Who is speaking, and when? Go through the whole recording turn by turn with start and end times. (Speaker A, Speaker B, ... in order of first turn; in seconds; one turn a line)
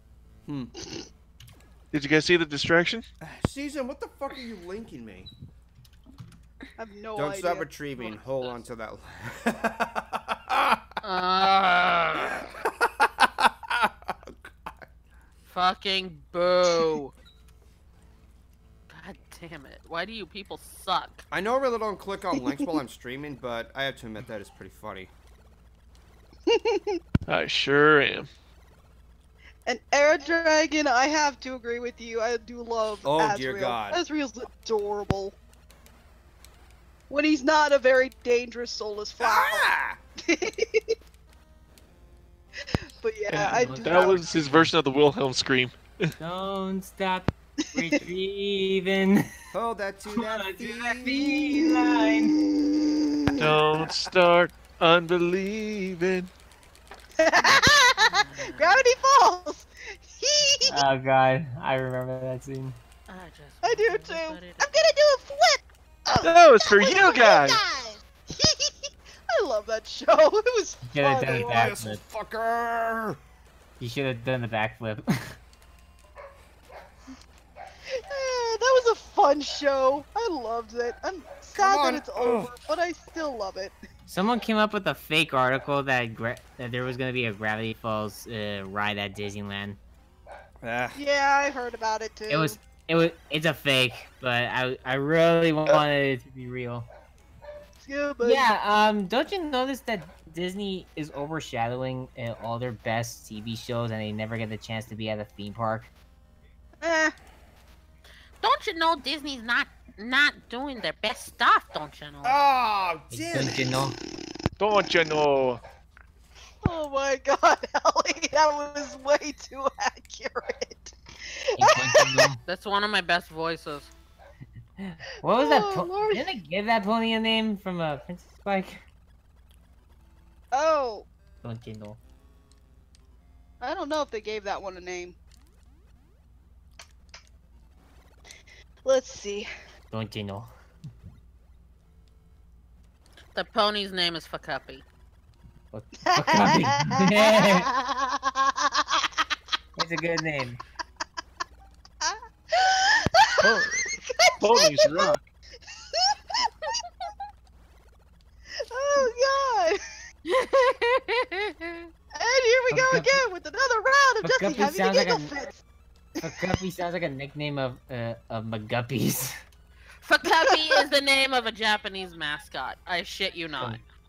Speaker A: 0.5-0.7
Speaker B: 1.9-3.0
Speaker A: 3.2-5.3
Speaker C: 6.8-7.7
Speaker A: 7.1-10.9
Speaker D: 8.0-8.6
Speaker D: 11.0-12.4
Speaker A: 12.6-14.8
Speaker D: 15.4-17.1
Speaker D: 18.9-21.2
Speaker A: 21.3-25.1
Speaker C: 26.5-27.0
Speaker B: 27.3-28.3
Speaker C: 29.6-35.4
Speaker A: 33.0-34.0
Speaker C: 37.1-39.7
Speaker A: 39.2-40.0
Speaker C: 40.3-41.0
Speaker C: 43.0-44.2
Speaker B: 43.3-46.1
Speaker E: 43.5-44.1
Speaker E: 46.2-49.2
Speaker A: 49.5-51.2
Speaker E: 50.2-52.4
Speaker C: 51.6-53.6
Speaker B: 53.4-56.3
Speaker C: 57.2-60.8
Speaker D: 57.4-58.9
Speaker E: 60.6-62.8
Speaker D: 63.1-64.8
Speaker C: 63.6-71.7
Speaker B: 66.2-67.6
Speaker E: 70.9-72.0
Speaker A: 71.4-73.2
Speaker E: 73.8-75.3
Speaker C: 77.9-83.8
Speaker A: 81.5-82.5
Speaker E: 84.1-89.8
Speaker A: 90.6-91.0
Speaker C: 91.0-92.6
Speaker E: 92.3-96.9
Speaker C: 97.8-98.5
Speaker E: 98.2-105.9
Speaker C: 106.8-107.1
Speaker D: 108.4-112.4
Speaker A: 112.2-113.8
Speaker E: 113.1-114.0
Speaker B: 114.6-115.6
Speaker C: 116.6-122.2
Speaker E: 121.6-122.4
Speaker D: 122.5-123.9
Speaker E: 124.8-128.8
Speaker C: 125.2-126.2
Speaker C: 130.5-131.1
Speaker E: 131.4-132.0
Speaker C: 133.6-135.2
Speaker C: 138.8-139.5
Speaker E: 139.9-140.5
Speaker D: 143.3-144.8
Speaker E: 145.7-147.7
Speaker C: 146.1-149.2
Speaker B: 146.3-146.7
Speaker E: 149.8-150.6
Speaker C: 152.0-155.1
Speaker B: 153.4-155.2
Speaker C: 155.7-156.5
Speaker C: 158.7-159.8
Speaker D: 160.3-161.9
Speaker C: 162.2-165.6
Speaker E: 162.7-163.2
Speaker E: 164.2-165.3
Speaker C: 166.2-166.6
Speaker E: 166.2-169.3
Speaker D: 170.0-173.8
Speaker C: 170.4-170.8